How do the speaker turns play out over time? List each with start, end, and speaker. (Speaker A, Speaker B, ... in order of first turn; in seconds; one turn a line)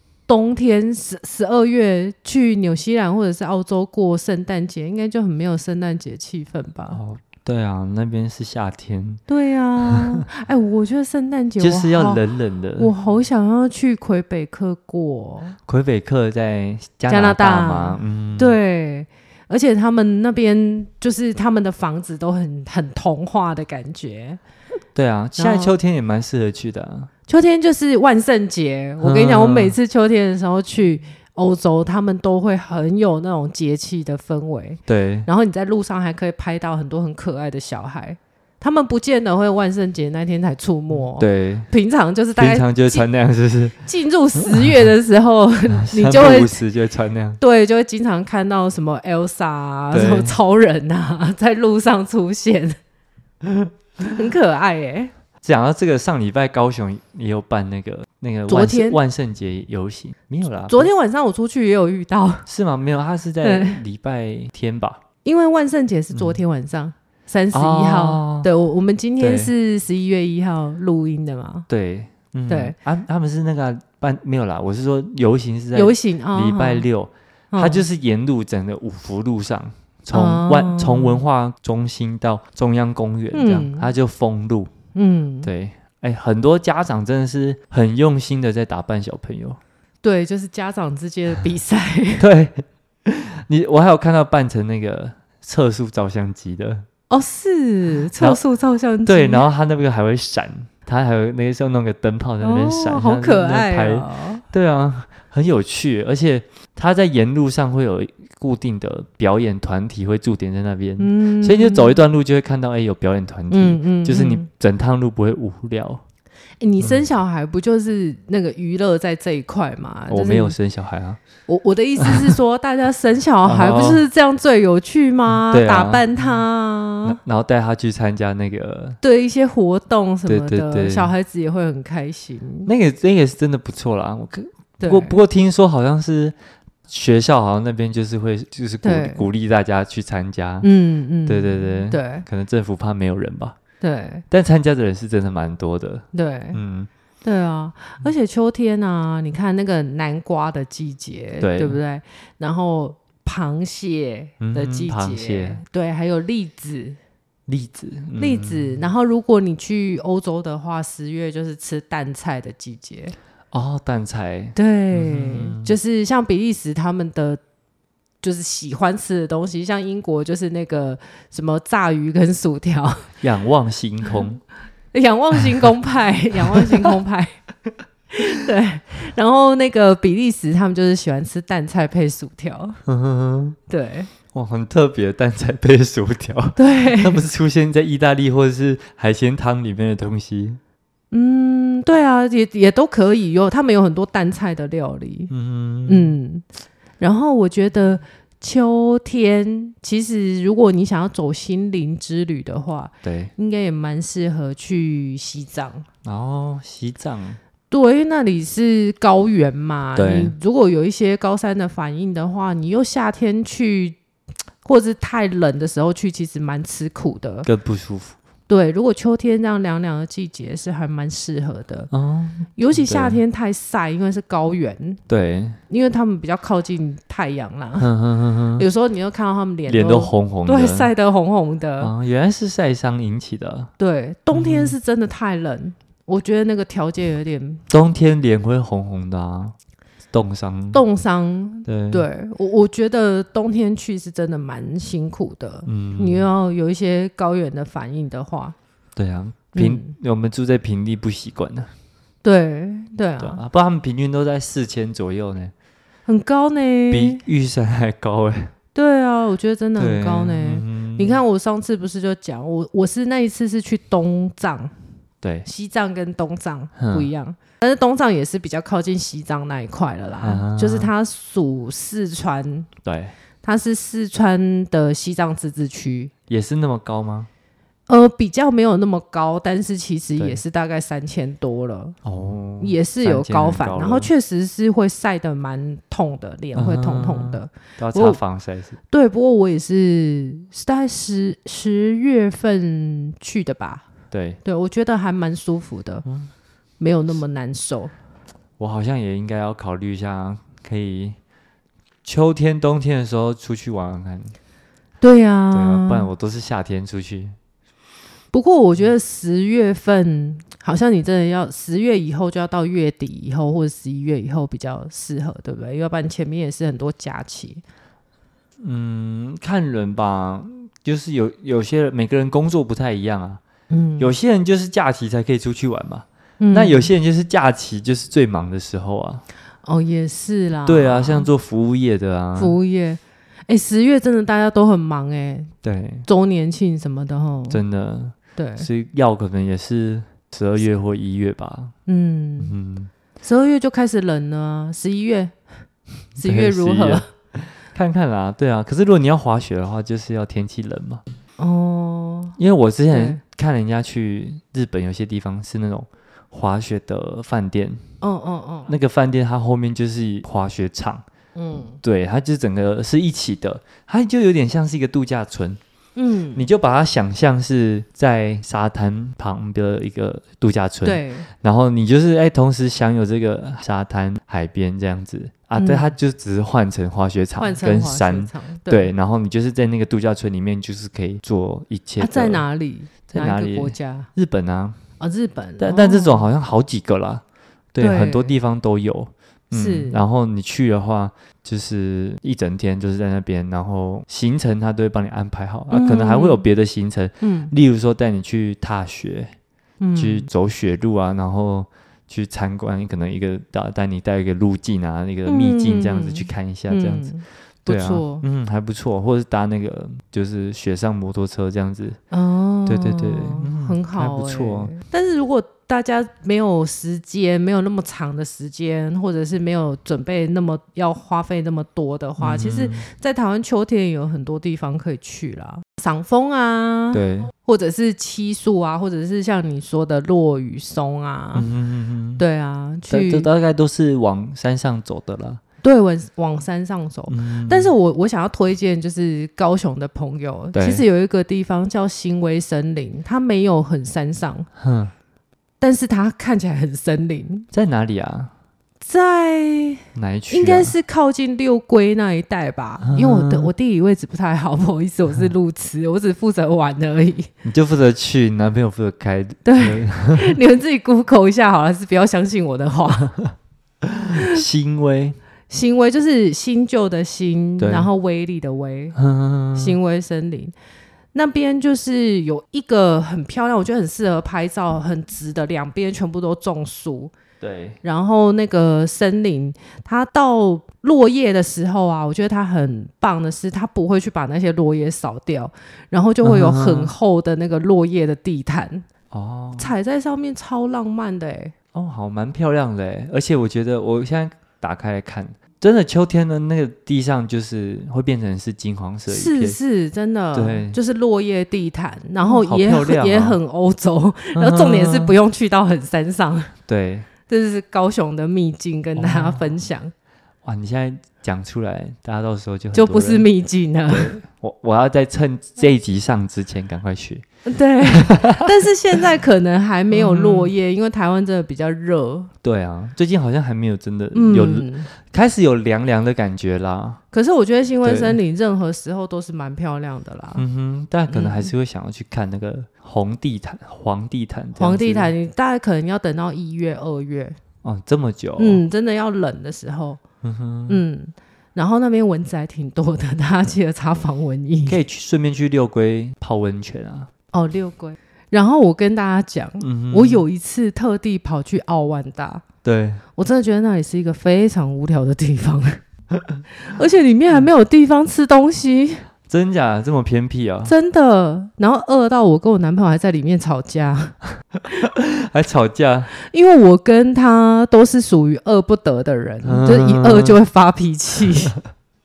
Speaker A: 0.3-7.0
Speaker B: 6.9-9.2
Speaker A: 9.3-12.2
Speaker B: 9.9-10.2
Speaker B: 11.6-12.9
Speaker A: 12.8-15.6
Speaker B: 15.7-18.6
Speaker A: 17.1-24.4
Speaker B: 24.9-27.1
Speaker A: 25.4-25.7
Speaker A: 27.3-43.1
Speaker B: 29.0-29.8
Speaker B: 34.9-35.3
Speaker B: 41.2-41.7
Speaker B: 42.4-43.8
Speaker A: 43.8-46.6
Speaker B: 44.4-44.7
Speaker B: 45.8-47.4
Speaker A: 47.4-52.8
Speaker B: 49.9-50.4
Speaker A: 54.0-55.1
Speaker B: 55.4-60.9
Speaker A: 58.5-59.0
Speaker A: 60.6-62.5
Speaker B: 62.5-65.0
Speaker A: 63.4-63.8
Speaker A: 65.2-71.7
Speaker B: 66.1-66.4
Speaker B: 67.5-68.5
Speaker B: 69.2-69.5
Speaker B: 71.7-84.7
Speaker A: 72.5-72.7
Speaker A: 75.7-76.9
Speaker A: 77.5-77.8
Speaker A: 80.1-81.2
Speaker A: 83.3-83.9
Speaker A: 84.9-85.5
Speaker B: 85.4-89.6
Speaker A: 90.0-92.3
Speaker B: 92.2-96.9
Speaker A: 97.1-99.5
Speaker B: 98.2-98.4
Speaker B: 99.0-116.0
Speaker A: 102.4-104.4
Speaker A: 111.0-112.0
Speaker A: 113.5-114.5
Speaker A: 116.6-120.5
Speaker B: 116.8-117.0
Speaker B: 120.1-121.2
Speaker A: 121.5-127.2
Speaker B: 122.0-122.4
Speaker B: 123.4-124.0
Speaker B: 125.4-126.1
Speaker B: 127.0-129.0
Speaker A: 129.0-132.7
Speaker B: 130.3-131.1
Speaker B: 132.7-136.3
Speaker A: 134.8-135.2
Speaker B: 136.9-140.7
Speaker A: 138.8-139.2
Speaker A: 140.6-142.2
Speaker B: 141.3-143.6
Speaker A: 143.8-144.2
Speaker B: 144.3-146.9
Speaker A: 146.1-146.6
Speaker A: 147.2-157.0
Speaker B: 151.4-151.8
Speaker B: 154.4-155.6
Speaker B: 157.5-158.8
Speaker A: 158.2-163.1
Speaker B: 163.5-165.7
Speaker A: 164.6-167.4
Speaker A: 168.2-173.1
Speaker B: 173.2-174.4
Speaker A: 174.9-177.4
Speaker B: 176.4-176.9
Speaker A: 178.1-182.8
Speaker B: 182.9-183.6
Speaker A: 183.7-184.1
Speaker B: 184.3-190.6
Speaker A: 186.6-187.2
Speaker A: 191.1-195.3
Speaker B: 195.3-196.1
Speaker A: 195.9-196.4
Speaker A: 197.0-205.9
Speaker B: 203.0-203.3
Speaker B: 206.0-207.4
Speaker A: 207.7-214.0
Speaker B: 209.9-210.3
Speaker A: 214.6-217.5
Speaker B: 217.4-218.2
Speaker A: 218.5-221.9
Speaker B: 221.9-223.2
Speaker A: 222.6-225.0
Speaker B: 225.1-225.6
Speaker A: 225.7-227.9
Speaker B: 227.8-228.6
Speaker A: 228.6-231.9
Speaker B: 229.7-230.9
Speaker B: 231.8-233.7
Speaker A: 233.8-237.6
Speaker B: 234.3-234.8
Speaker B: 237.7-239.6
Speaker B: 240.1-240.8
Speaker A: 240.7-248.6
Speaker B: 241.7-242.1
Speaker B: 245.7-246.3
Speaker B: 248.9-251.7
Speaker A: 249.5-249.9
Speaker A: 252.2-253.4
Speaker B: 253.2-255.5
Speaker A: 256.1-257.2
Speaker B: 256.9-258.5
Speaker A: 258.7-264.7
Speaker B: 259.8-261.2
Speaker B: 265.2-265.5
Speaker A: 265.4-272.7
Speaker B: 266.8-267.1
Speaker B: 270.2-270.9
Speaker B: 272.8-273.1
Speaker A: 273.4-276.1
Speaker B: 276.3-277.3
Speaker A: 277.9-282.0
Speaker B: 280.2-280.4
Speaker B: 282.1-284.1
Speaker A: 282.6-288.2
Speaker B: 286.6-288.8
Speaker A: 288.9-293.8
Speaker B: 294.1-294.4
Speaker A: 294.4-296.1
Speaker A: 296.8-297.9
Speaker B: 298.6-301.2
Speaker B: 302.1-304.3
Speaker A: 305.0-306.1
Speaker B: 305.5-307.4
Speaker A: 308.3-317.6
Speaker B: 318.6-323.4
Speaker A: 323.7-324.1
Speaker B: 324.0-329.2
Speaker A: 326.4-326.9
Speaker A: 329.6-331.3
Speaker B: 330.6-332.6
Speaker A: 332.4-335.5
Speaker B: 335.6-336.1
Speaker A: 336.1-337.6
Speaker B: 337.5-341.7
Speaker A: 338.4-338.7
Speaker A: 341.9-342.6
Speaker B: 342.4-342.9
Speaker A: 343.2-345.3
Speaker A: 346.2-347.1
Speaker B: 346.2-351.0
Speaker A: 351.4-352.4
Speaker B: 352.4-357.8
Speaker A: 352.9-353.2
Speaker A: 358.0-358.7
Speaker B: 358.7-361.1
Speaker A: 361.4-361.8
Speaker B: 361.8-365.6
Speaker A: 365.9-366.5
Speaker B: 366.3-382.4
Speaker A: 370.8-371.3
Speaker A: 375.6-375.9
Speaker A: 377.4-378.9
Speaker A: 382.0-384.1
Speaker B: 383.1-384.8
Speaker A: 385.0-386.3
Speaker B: 385.6-387.2
Speaker B: 387.7-399.3
Speaker A: 387.8-388.3
Speaker A: 389.5-390.0
Speaker A: 395.7-396.4
Speaker A: 397.2-397.5
Speaker A: 399.8-400.3
Speaker B: 399.9-407.1
Speaker A: 405.3-408.3
Speaker B: 407.6-412.0
Speaker A: 412.1-431.5
Speaker B: 412.6-414.7
Speaker B: 422.2-422.9
Speaker B: 426.9-427.3
Speaker B: 431.3-432.2
Speaker A: 432.2-433.3
Speaker B: 432.9-435.4
Speaker A: 435.6-444.5
Speaker B: 437.1-437.7
Speaker B: 440.5-440.8
Speaker B: 444.6-444.9
Speaker A: 445.6-447.5
Speaker B: 447.5-448.3
Speaker A: 448.8-457.3
Speaker B: 449.9-450.7
Speaker B: 452.8-453.5
Speaker B: 457.4-460.4
Speaker A: 459.4-463.1
Speaker B: 463.8-465.2
Speaker A: 464.1-464.4
Speaker A: 465.5-469.0
Speaker B: 467.6-467.9
Speaker B: 468.9-469.8
Speaker A: 469.6-470.5
Speaker A: 471.1-477.1
Speaker B: 477.4-477.8
Speaker A: 477.8-488.9
Speaker B: 486.2-486.9
Speaker B: 489.1-489.7
Speaker A: 489.6-491.5
Speaker B: 491.7-499.6
Speaker A: 499.1-506.5
Speaker B: 500.3-500.8
Speaker B: 502.2-503.4
Speaker B: 504.3-505.1
Speaker B: 506.7-507.1
Speaker A: 507.3-509.9
Speaker B: 508.9-509.6
Speaker B: 510.4-513.3
Speaker A: 512.7-514.1
Speaker B: 513.9-517.2
Speaker A: 517.5-522.3
Speaker B: 517.8-518.5
Speaker B: 519.9-520.5
Speaker B: 522.4-527.0
Speaker A: 524.1-524.9
Speaker A: 527.1-530.4
Speaker B: 527.8-528.2
Speaker B: 530.4-535.1
Speaker A: 531.1-531.5
Speaker A: 534.5-537.4
Speaker B: 537.6-538.6
Speaker A: 538.4-540.0
Speaker B: 540.2-540.8
Speaker A: 540.7-544.8
Speaker B: 544.6-547.1
Speaker A: 547.3-552.5
Speaker B: 549.6-550.2
Speaker B: 552.6-553.0
Speaker A: 553.1-555.8
Speaker A: 556.6-559.0
Speaker B: 559.3-560.7
Speaker A: 560.6-564.1
Speaker B: 564.7-566.1
Speaker A: 566.1-571.6
Speaker B: 569.4-570.4